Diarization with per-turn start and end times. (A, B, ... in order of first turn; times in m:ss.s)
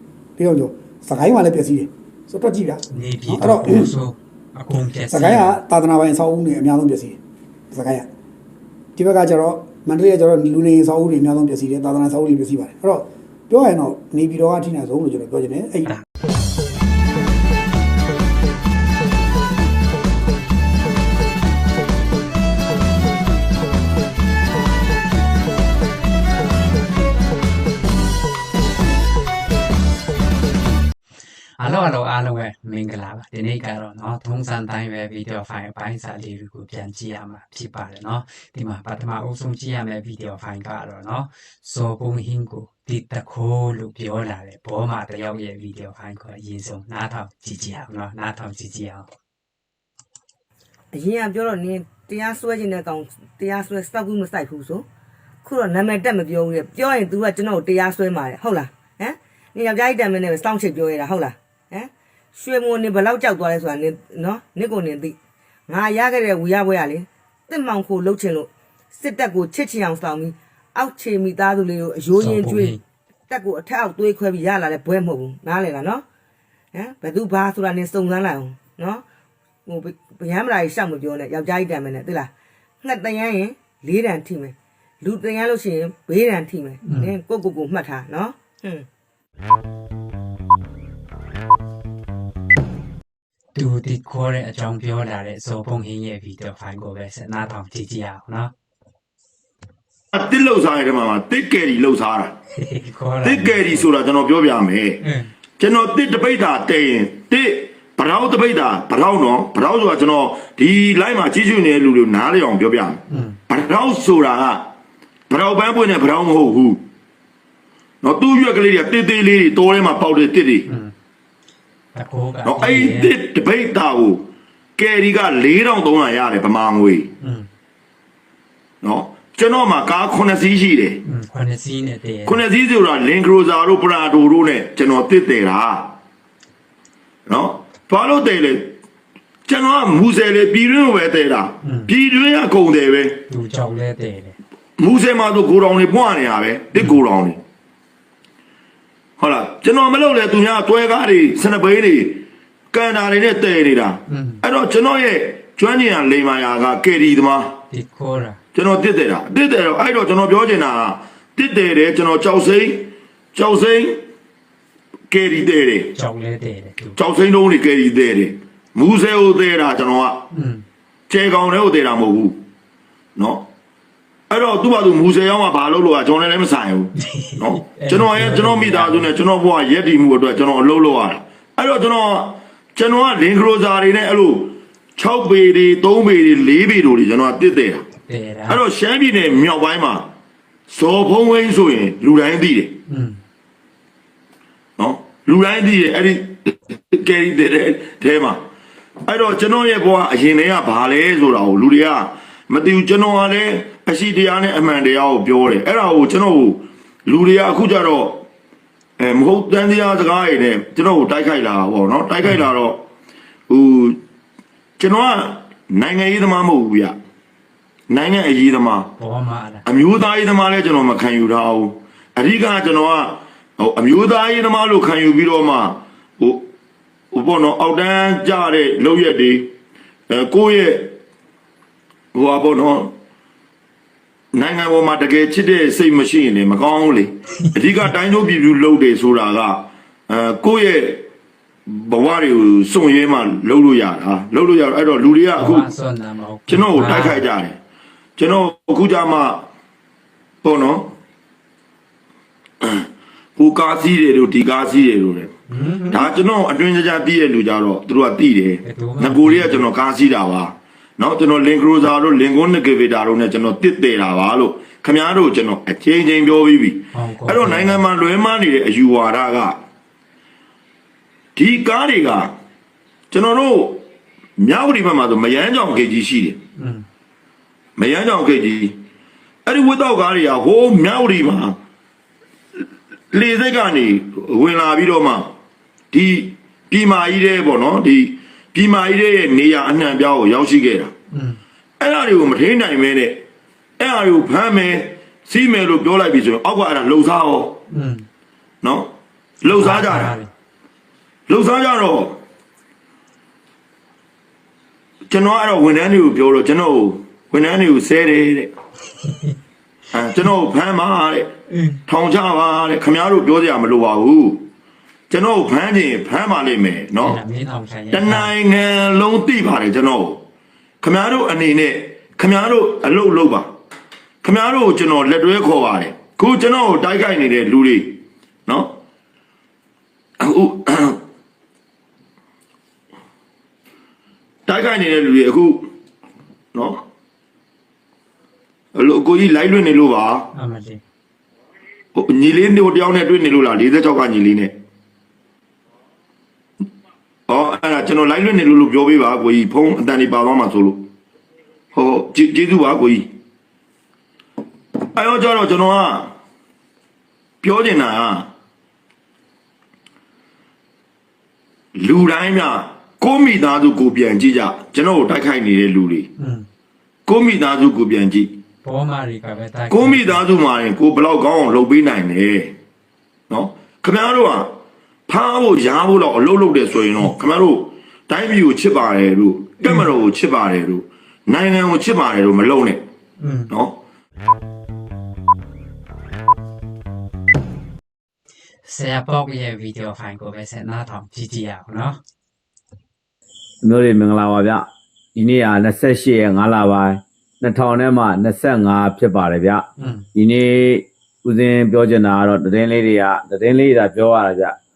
0:00.4-0:03.9 A
0:02.9-0:05.6 B
0:05.1-0:07.2 A
0:07.7-0:08.1 A
0:09.0-0:15.9 A
0:31.6-0:49.1 B
0:50.9-0:54.9 C
0:55.4-1:05.2 C
1:05.7-1:12.8 C
1:12.2-1:12.8 B
1:13.3-1:16.0 C
1:16.7-1:19.0 C
1:19.7-1:22.3 C
1:22.8-1:28.9 C
1:26.8-1:27.1 B
1:33.6-1:38.5 B
1:40.1-1:42.4 D
1:42.6-1:43.9 B
1:43.2-1:45.0 D
1:45.0-1:45.3 B
1:45.6-1:54.7 D
1:53.1-1:53.4 B
1:55.3-1:56.8 D
1:58.0-2:00.7 D
2:00.7-2:00.9 B
2:01.9-2:03.1 B
2:02.4-2:07.1 D
2:07.2-2:07.5 B
2:08.8-2:11.0 D
2:11.0-2:12.4 B
2:12.3-2:16.0 D
2:17.3-2:18.8 D
2:19.5-2:23.2 D
2:21.6-2:21.9 B
2:23.3-2:24.4 B
2:24.8-2:27.4 D
2:29.2-2:37.6 D
2:34.1-2:34.4 B
2:37.7-2:38.4 B
2:38.5-2:44.0 D
2:45.1-2:46.0 D
2:45.9-2:47.0 B
2:47.0-2:50.3 D
2:50.3-2:50.6 B
2:51.1-2:52.4 D
2:53.2-2:53.5 D
2:54.3-3:07.9 D
2:57.0-2:59.2 B
3:08.0-3:08.6 B
3:08.5-3:10.1 D
3:10.7-3:12.8 D
3:12.9-3:13.2 B
3:14.8-3:18.4 D
3:19.1-3:28.2 D
3:29.0-3:32.8 D
3:33.5-3:34.0 D
3:34.8-3:37.0 D
3:37.9-3:39.0 D
3:39.0-3:39.6 B
3:39.6-3:46.5 D
3:47.1-3:49.5 D
3:50.1-3:51.0 D
3:52.1-3:52.9 D
3:54.3-4:01.1 D
4:01.7-4:05.7 D
4:05.4-4:07.2 B
4:06.5-4:07.6 D
4:08.2-4:09.5 D
4:10.4-4:10.9 D
4:12.6-4:15.4 D
4:15.5-4:16.1 B
4:15.9-4:29.6 D
4:18.6-4:19.6 B
4:26.9-4:27.8 B
4:31.4-4:32.3 D
4:33.1-4:33.8 D
4:34.4-4:36.4 D
4:36.6-4:36.8 B
4:37.8-4:38.8 D
4:39.5-4:41.6 D
4:43.1-4:45.3 D
4:45.9-4:50.9 D
4:51.1-4:51.4 B
4:51.8-4:53.2 D
4:53.8-4:57.6 D
4:57.7-4:58.1 B
4:58.6-5:00.2 D
4:59.5-5:00.3 B
5:01.3-5:02.2 D
5:05.1-5:08.5 D
5:09.9-5:11.3 D
5:11.5-5:11.8 B
5:11.9-5:14.5 D
5:15.1-5:17.2 D
5:17.0-5:18.3 B
5:17.9-5:20.2 D
5:20.8-5:23.5 D
5:24.2-5:28.8 D
5:30.2-5:31.0 D
5:34.5-5:35.7 D
5:36.5-5:36.8 D
5:38.7-5:40.3 D
5:40.3-5:40.8 B
5:42.0-5:44.5 D
5:47.3-5:50.9 D
5:51.7-5:53.1 D
5:54.8-5:56.1 D
5:57.4-5:58.3 D
6:01.8-6:06.1 D
6:06.2-6:06.5 B
6:07.1-6:08.4 D
6:08.6-6:10.2 B
6:09.7-6:12.6 D
6:13.3-6:14.5 D
6:15.1-6:22.8 D
6:23.2-6:23.5 B
6:28.6-6:32.0 B
6:33.6-6:34.6 E
6:35.2-6:44.6 E
6:39.8-6:40.1 B